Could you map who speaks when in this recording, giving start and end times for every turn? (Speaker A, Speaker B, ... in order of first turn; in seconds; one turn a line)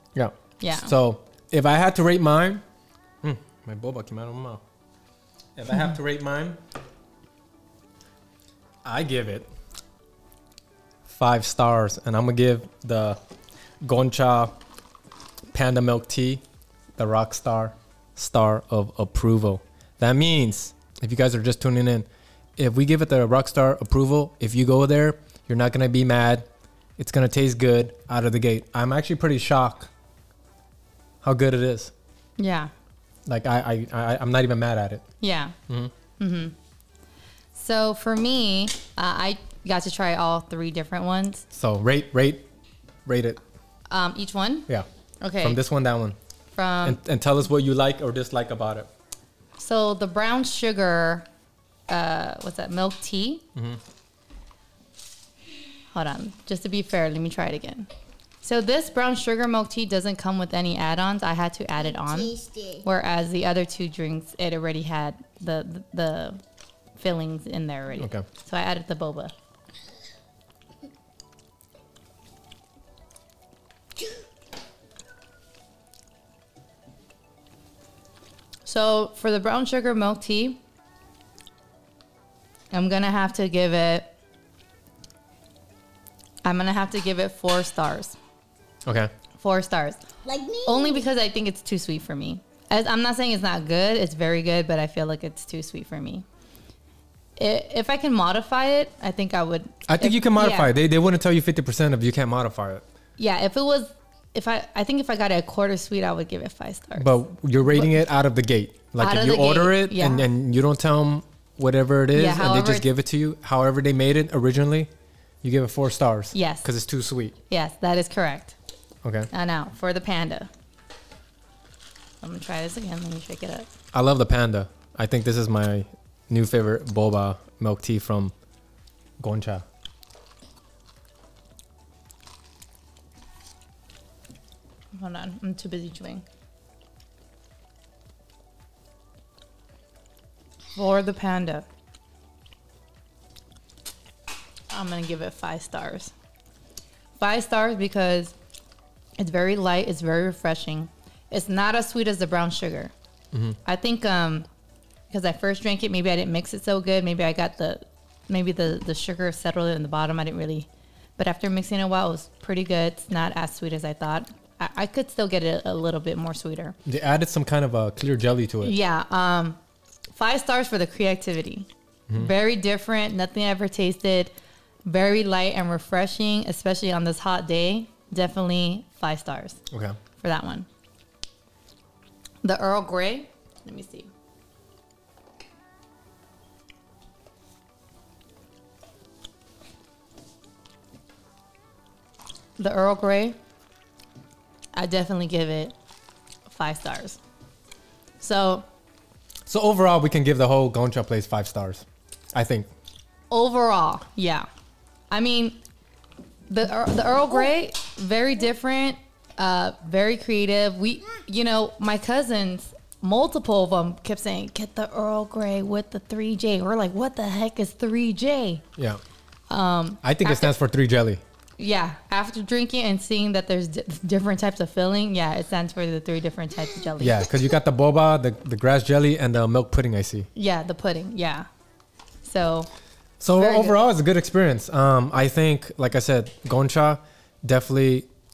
Speaker A: 0.1-2.6
Speaker B: 0.6-0.9
Speaker A: 3.2-4.6
Speaker A: 5.5-6.6
Speaker A: 8.8-9.5
Speaker A: 11.1-13.2
Speaker A: 13.8-14.5
Speaker A: 15.5-16.4
Speaker A: 17.0-26.4
Speaker A: 27.0-29.9
Speaker A: 31.2-31.9
Speaker B: 32.4-32.7
Speaker A: 33.2-35.0
Speaker B: 35.2-35.5
Speaker B: 36.2-36.5
Speaker B: 37.5-41.4
Speaker A: 41.5-42.5
Speaker A: 43.0-43.4
Speaker B: 43.9-44.7
Speaker B: 45.2-45.6
Speaker A: 45.4-46.1
Speaker B: 46.5-47.0
Speaker A: 46.8-48.9
Speaker B: 49.6-51.3
Speaker B: 51.9-53.4
Speaker A: 53.5-53.8
Speaker B: 55.9-57.9
Speaker B: 58.4-66.4
Speaker C: 61.8-62.9
Speaker B: 67.0-69.3
Speaker A: 67.9-68.2
Speaker B: 78.7-80.6
Speaker B: 82.7-84.1
Speaker B: 86.4-88.2
Speaker A: 88.8-89.1
Speaker B: 89.4-90.0
Speaker C: 90.2-91.1
Speaker B: 90.7-96.2
Speaker B: 97.4-100.7
Speaker A: 99.9-102.8
Speaker B: 103.2-107.1
Speaker A: 107.0-114.9
Speaker B: 107.7-107.9
Speaker B: 109.0-110.2
Speaker B: 112.1-112.9
Speaker A: 115.4-117.3
Speaker B: 116.3-116.7
Speaker B: 117.5-118.5
Speaker A: 119.0-119.3
Speaker B: 119.3-120.5
Speaker B: 122.2-123.7
Speaker A: 123.9-128.3
Speaker A: 129.2-129.6
Speaker B: 134.9-136.2
Speaker B: 140.7-141.7
Speaker B: 144.7-146.1
Speaker B: 147.2-148.3
Speaker B: 149.2-152.9
Speaker A: 153.3-153.6
Speaker B: 153.6-154.5
Speaker B: 155.1-166.7
Speaker A: 166.8-168.8
Speaker B: 168.6-169.6
Speaker B: 170.1-174.3
Speaker B: 174.8-179.6
Speaker A: 179.7-179.9
Speaker B: 180.2-180.7
Speaker B: 182.4-184.1
Speaker B: 192.6-193.4
Speaker B: 194.7-195.7
Speaker B: 196.5-197.2
Speaker B: 198.2-198.6
Speaker A: 199.5-202.7
Speaker B: 203.3-204.5
Speaker B: 205.1-205.6
Speaker B: 206.5-218.6
Speaker A: 218.8-219.0
Speaker B: 219.5-220.5
Speaker A: 220.0-221.2
Speaker B: 221.6-227.2
Speaker A: 227.0-230.3
Speaker B: 230.3-231.5
Speaker B: 232.2-232.7
Speaker A: 233.2-238.1
Speaker B: 233.3-233.8